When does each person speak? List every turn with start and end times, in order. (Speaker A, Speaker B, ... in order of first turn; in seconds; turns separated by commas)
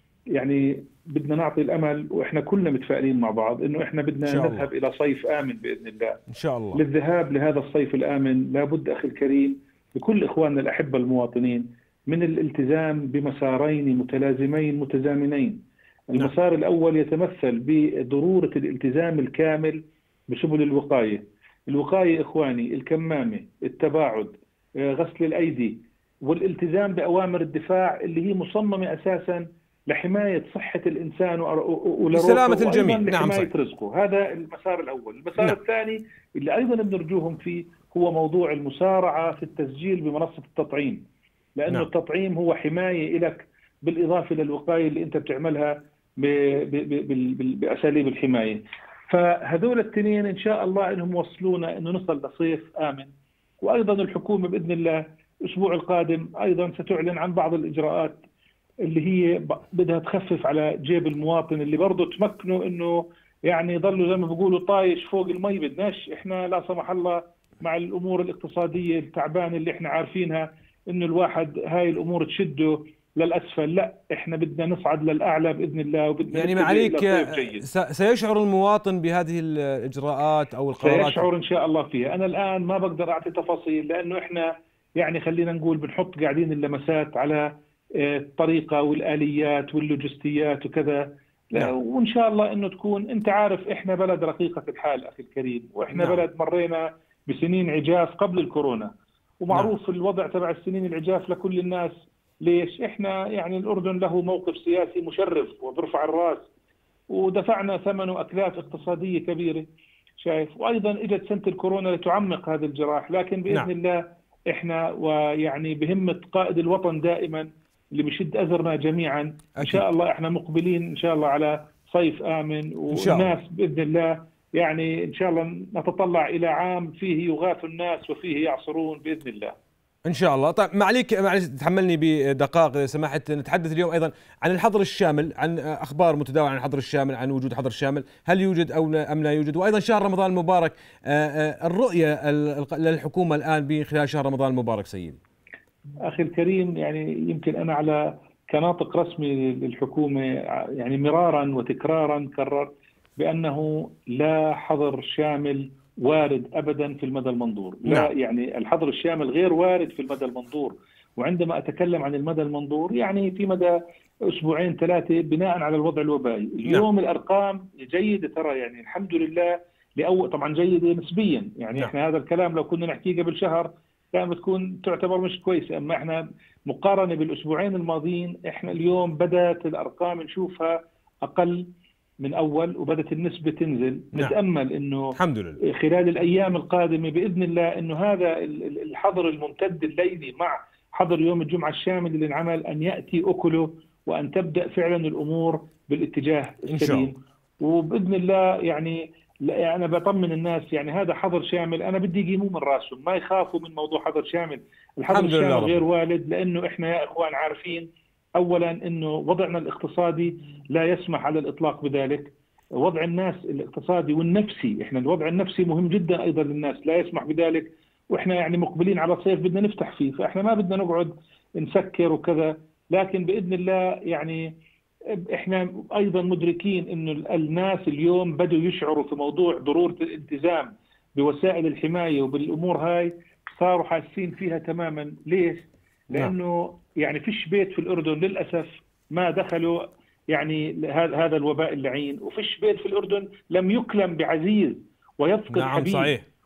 Speaker A: 0.3-6.2, Speaker B: 4.2-4.7, Speaker B: 6.3-6.8, Speaker A: 6.7-41.0, Speaker B: 32.1-33.5, Speaker A: 41.5-58.2, Speaker A: 58.8-77.6, Speaker B: 76.3-81.3, Speaker A: 80.8-106.5, Speaker B: 95.9-96.2, Speaker A: 107.1-109.7, Speaker A: 110.2-129.5, Speaker B: 122.9-123.3, Speaker B: 130.0-145.2, Speaker A: 146.0-163.8, Speaker A: 164.3-181.7, Speaker A: 182.2-224.5, Speaker B: 185.2-185.6, Speaker B: 196.7-197.1, Speaker B: 205.1-205.8, Speaker A: 225.3-246.1, Speaker B: 245.5-246.2